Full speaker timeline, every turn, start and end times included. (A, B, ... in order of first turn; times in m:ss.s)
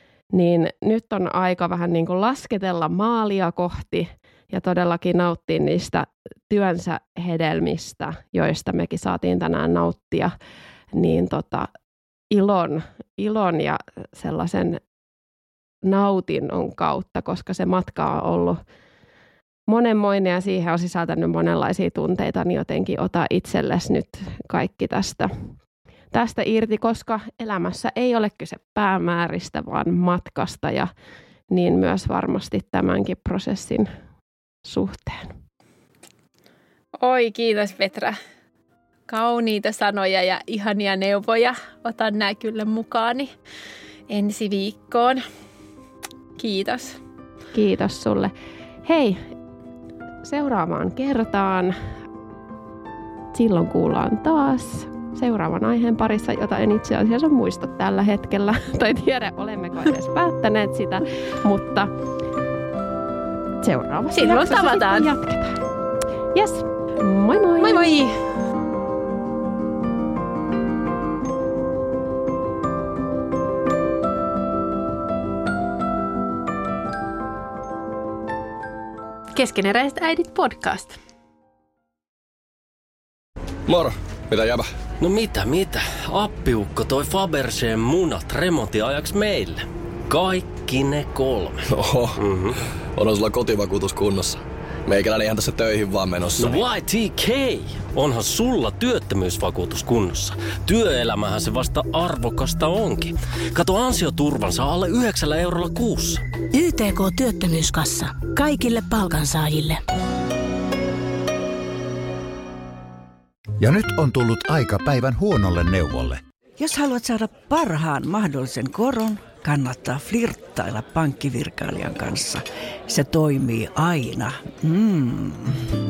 0:00.3-0:10.3 A
0:10.9-0:11.7 A
0:12.3-0:14.8 A
0:15.8-0:18.6 A
0:19.7-0:25.3 A
0:26.1-0:30.9 A
0:31.5-0:33.9 A
0:34.6-0:35.3 A
0:37.0-0:38.2 B
0:39.1-0:43.3 B
0:44.1-0:45.2 B
0:46.4-0:47.0 B
0:47.5-0:49.3 A
0:50.2-0:51.8 A
0:53.3-1:01.9 A
1:03.6-1:05.6 A
1:04.1-1:05.1 B
1:06.3-1:07.9 A
1:07.6-1:08.2 B
1:19.4-1:21.0 B
1:23.7-1:24.7 C
1:25.0-1:32.6 D
1:31.7-1:32.2 C
1:33.0-1:36.6 C
1:36.4-1:46.2 D
1:46.5-1:49.8 E
1:53.6-1:56.2 F
1:56.6-2:05.6 G